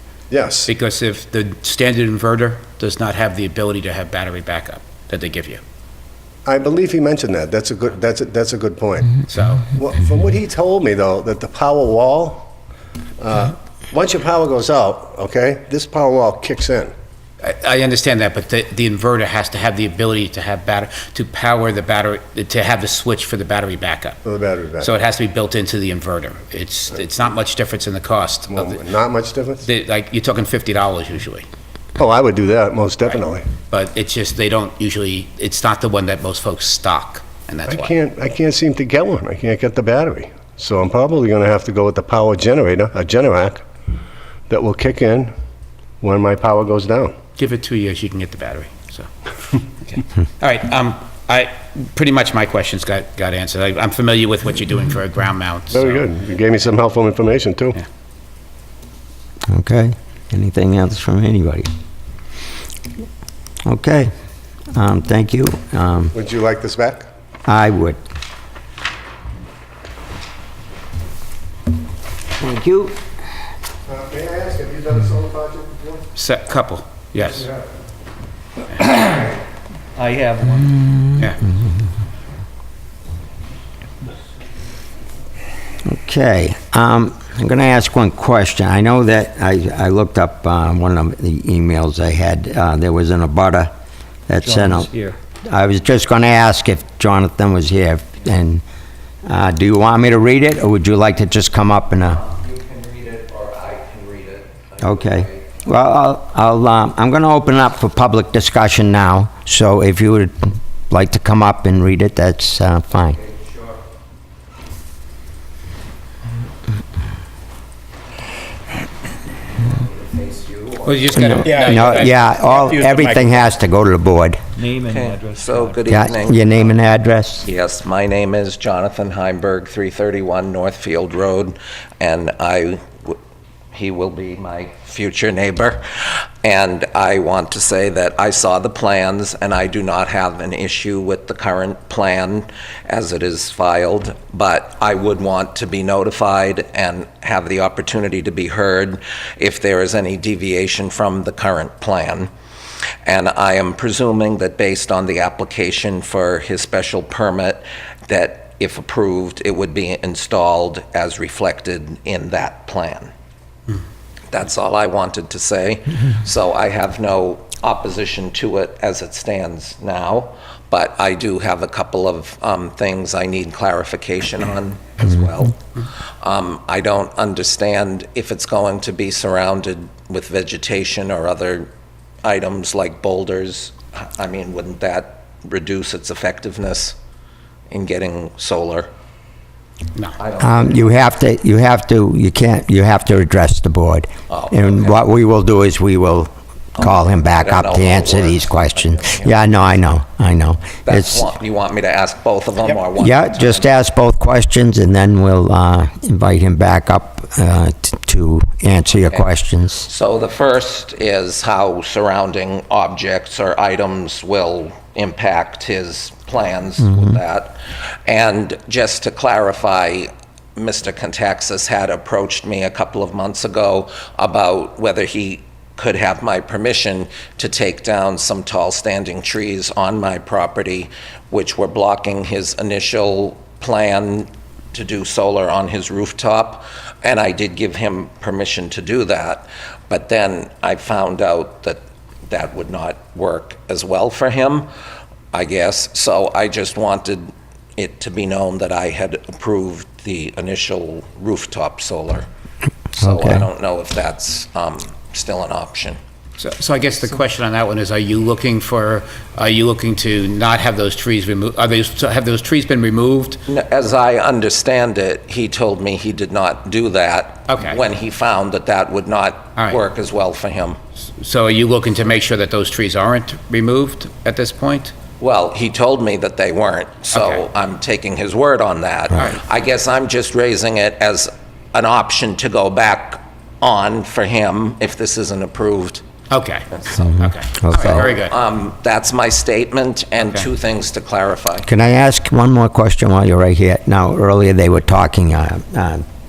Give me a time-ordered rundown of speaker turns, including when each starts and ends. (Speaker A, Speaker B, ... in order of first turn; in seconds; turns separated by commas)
Speaker A: 0.3-0.7, Speaker B: 0.7-5.6, Speaker A: 6.5-9.2, Speaker B: 9.3-9.7, Speaker A: 9.7-12.5, Speaker A: 13.2-16.9, Speaker B: 17.4-24.2, Speaker A: 24.2-24.9, Speaker B: 24.8-28.8, Speaker A: 28.5-29.6, Speaker B: 29.6-31.5, Speaker A: 32.0-33.5, Speaker B: 33.7-37.9, Speaker A: 37.7-43.6, Speaker A: 44.5-45.3, Speaker A: 46.0-47.1, Speaker B: 47.4-49.1, Speaker B: 49.9-56.2, Speaker A: 55.7-57.8, Speaker C: 59.5-61.7, Speaker C: 63.6-64.1, Speaker C: 64.7-66.2, Speaker A: 66.1-67.0, Speaker C: 67.5-68.0, Speaker C: 72.4-73.0, Speaker A: 73.9-76.0, Speaker B: 76.2-77.5, Speaker A: 77.3-77.6, Speaker D: 78.9-79.3, Speaker D: 80.0-81.0, Speaker B: 81.2-81.5, Speaker C: 85.8-93.7, Speaker C: 94.3-94.9, Speaker D: 94.4-95.2, Speaker C: 95.5-98.6, Speaker C: 99.3-102.2, Speaker E: 102.1-105.6, Speaker C: 104.8-113.2, Speaker E: 113.1-113.8, Speaker E: 119.6-122.2, Speaker B: 120.9-122.1, Speaker C: 121.2-124.4, Speaker D: 121.5-123.4, Speaker D: 124.6-126.0, Speaker E: 124.8-126.8, Speaker C: 125.9-127.5, Speaker E: 127.4-133.2, Speaker E: 133.7-135.8, Speaker E: 136.4-152.3, Speaker E: 153.1-163.1, Speaker E: 164.3-175.6, Speaker E: 176.2-181.7, Speaker E: 182.2-187.0, Speaker E: 187.7-188.9, Speaker E: 190.2-190.9, Speaker C: 190.4-201.3, Speaker E: 194.3-195.0, Speaker E: 196.8-199.6, Speaker E: 200.9-203.7, Speaker C: 203.0-209.9, Speaker E: 209.8-244.7, Speaker C: 216.8-217.2, Speaker E: 245.3-252.3, Speaker E: 253.0-256.0, Speaker C: 253.0-253.4, Speaker B: 256.4-263.4, Speaker E: 263.5-270.8, Speaker B: 267.5-267.8, Speaker B: 271.2-274.9, Speaker E: 275.2-286.0, Speaker B: 277.1-277.4, Speaker B: 286.3-288.4, Speaker E: 286.8-287.1, Speaker C: 287.1-288.1, Speaker E: 287.7-291.7, Speaker C: 291.6-296.0